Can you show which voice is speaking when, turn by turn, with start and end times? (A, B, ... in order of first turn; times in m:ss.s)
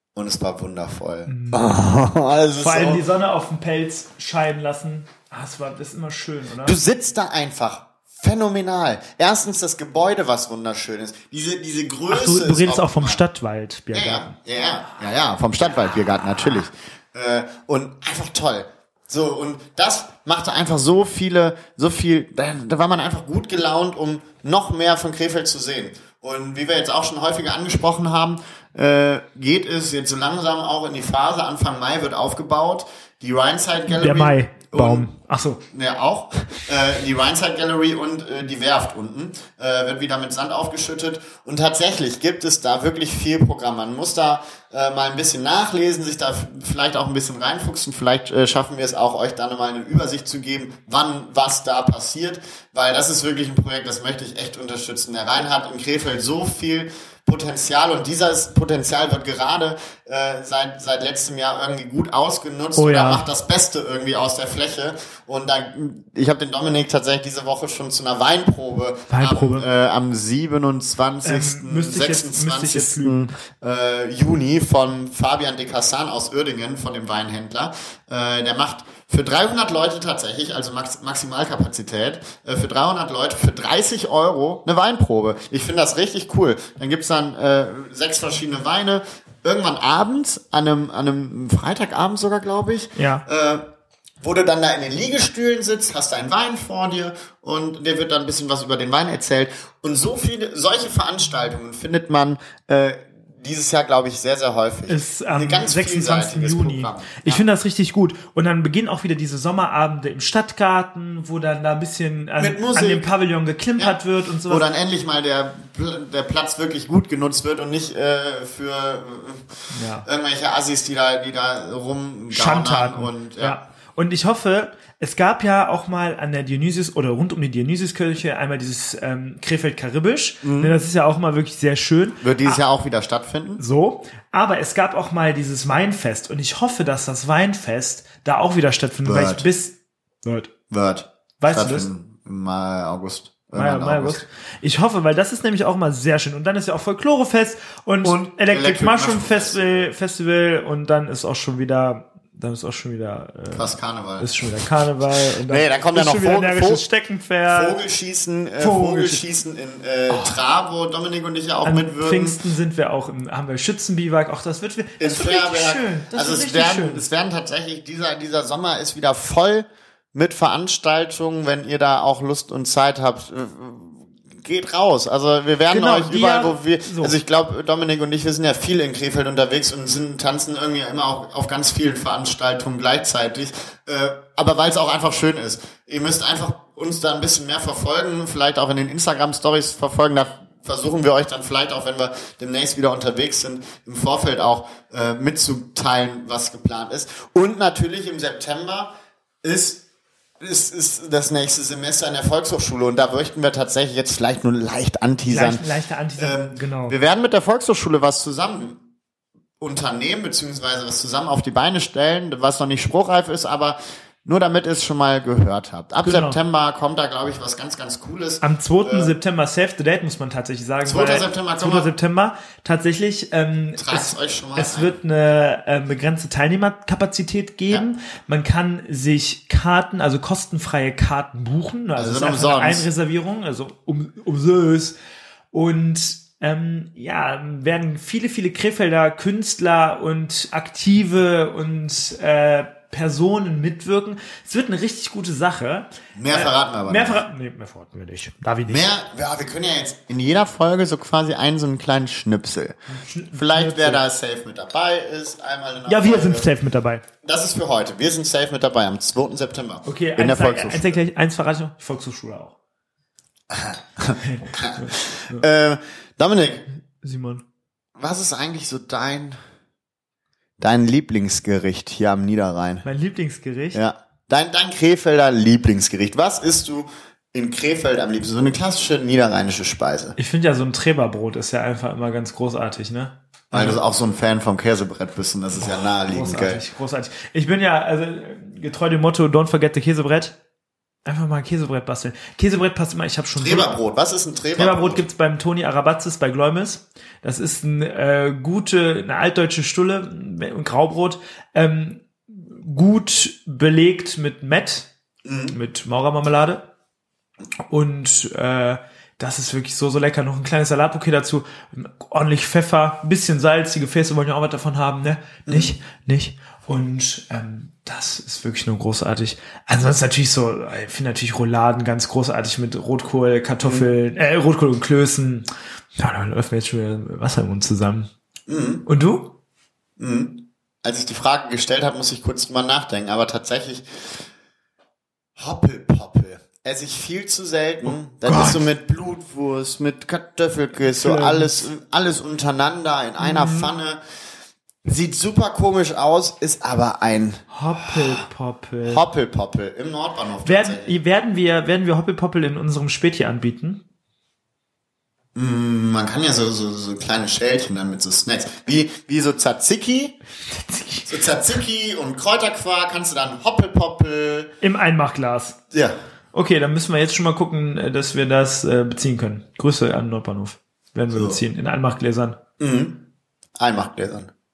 0:00.1-0:03.0 A
0:01.3-0:01.8 B
0:02.6-0:06.8 B
0:06.6-0:13.2 A
0:12.1-0:14.3 B
0:13.9-0:35.1 A
0:33.9-0:35.6 B
0:35.6-1:33.6 A
1:02.8-1:03.2 B
1:09.1-1:09.7 B
1:11.2-1:13.3 B
1:33.0-1:33.2 B
1:34.2-1:47.4 A
1:44.9-1:54.7 B
1:52.4-1:53.1 A
1:53.8-2:03.6 A
1:59.7-2:00.1 B
2:02.3-2:12.6 B
2:10.4-2:10.7 A
2:12.2-2:13.6 A
2:13.6-2:20.5 B
2:19.0-2:19.5 A
2:20.7-2:24.2 A
2:21.4-2:21.9 B
2:23.5-2:37.8 B
2:28.0-2:29.9 A
2:33.5-2:34.3 A
2:35.4-2:36.8 A
2:37.5-2:42.4 A
2:38.6-2:39.2 B
2:40.1-2:40.4 B
2:41.6-2:47.0 B
2:45.0-3:19.8 A
2:55.7-2:57.2 B
3:20.4-3:25.6 A
3:25.2-3:27.0 B
3:26.2-3:28.8 A
3:29.6-3:39.2 A
3:36.0-3:36.4 B
3:38.4-3:55.0 B
3:40.8-3:41.9 A
3:43.8-3:44.9 A
3:52.0-3:52.9 A
3:55.5-4:08.9 B
4:06.2-4:07.2 A
4:08.7-4:12.8 A
4:12.9-4:14.0 B
4:13.3-4:16.5 A
4:15.9-4:17.0 B
4:17.2-4:21.0 A
4:19.8-4:22.5 B
4:23.5-4:26.6 A
4:24.2-4:25.4 B
4:27.0-4:27.4 B
4:28.0-4:29.4 A
4:30.6-4:32.8 A
4:32.8-4:33.8 B
4:33.7-4:40.2 A
4:40.2-4:43.8 B
4:43.5-4:46.6 A
4:45.6-4:50.4 B
4:51.0-4:53.7 B
4:53.4-4:55.0 A
4:54.6-5:04.9 B
5:05.2-5:05.6 A
5:05.5-5:06.7 B
5:07.7-5:28.1 B
5:15.5-5:15.7 A
5:28.5-5:28.8 A
5:28.8-5:29.3 B
5:30.0-5:34.2 A
5:35.4-5:44.0 A
5:37.8-5:38.6 B
5:40.8-5:41.7 B
5:43.2-5:43.7 B
5:44.8-5:48.2 A
5:47.5-5:49.0 B
5:48.8-5:51.0 A
5:50.4-5:53.8 B
5:55.3-6:00.2 A
6:00.5-6:01.2 B
6:01.0-6:04.5 A
6:04.6-6:05.6 B
6:06.3-6:12.4 B
6:11.1-6:11.4 A
6:12.6-6:13.0 A
6:13.6-6:14.3 A